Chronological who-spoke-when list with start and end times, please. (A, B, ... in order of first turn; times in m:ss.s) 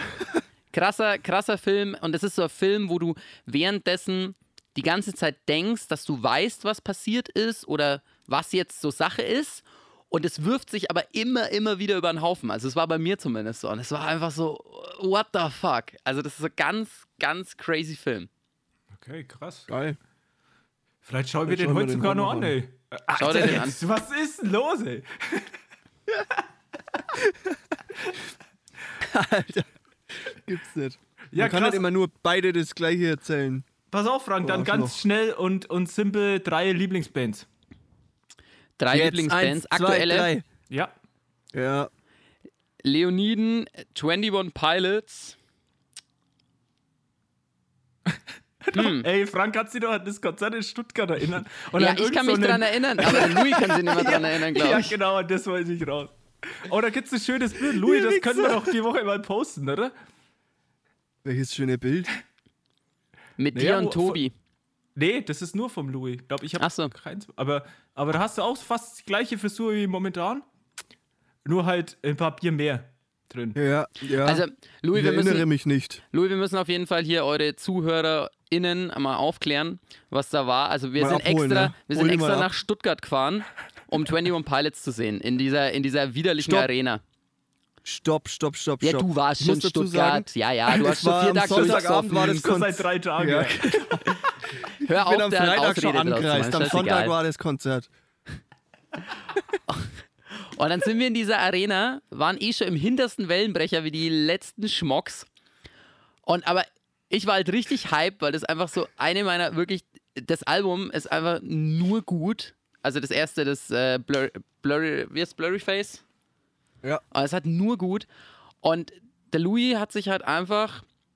0:00.7-0:18.3 A
0:18.9-0:19.7 B
0:19.7-0:20.0 C
0:21.0-0:25.6 B
0:21.5-0:22.6 C
0:23.1-0:23.8 A
0:27.2-0:27.6 C
0:29.0-0:33.7 C
0:31.3-0:31.8 B
0:33.9-0:37.5 B
0:34.4-0:35.0 C
0:38.8-0:40.3 A
0:38.9-0:40.4 C
0:41.5-0:41.9 C
0:42.8-0:45.4 A
0:48.1-0:59.9 B
0:48.7-0:49.1 A
0:51.8-0:55.0 A
0:57.8-0:58.6 C
1:01.2-1:02.1 C
1:03.4-1:04.3 A
1:03.6-1:04.2 B
1:05.0-1:10.4 B
1:06.6-1:06.9 A
1:11.4-1:13.6 B
1:13.6-1:16.0 C
1:14.2-1:15.5 A
1:16.1-1:27.0 A
1:21.0-1:22.5 C
1:26.4-1:26.7 C
1:27.8-1:34.2 C
1:28.8-1:32.4 A
1:31.5-1:34.2 B
1:34.7-1:37.9 C
1:34.9-1:37.1 A
1:39.7-1:45.3 A
1:46.3-1:56.0 A
1:57.1-1:58.1 A
1:58.6-2:00.8 A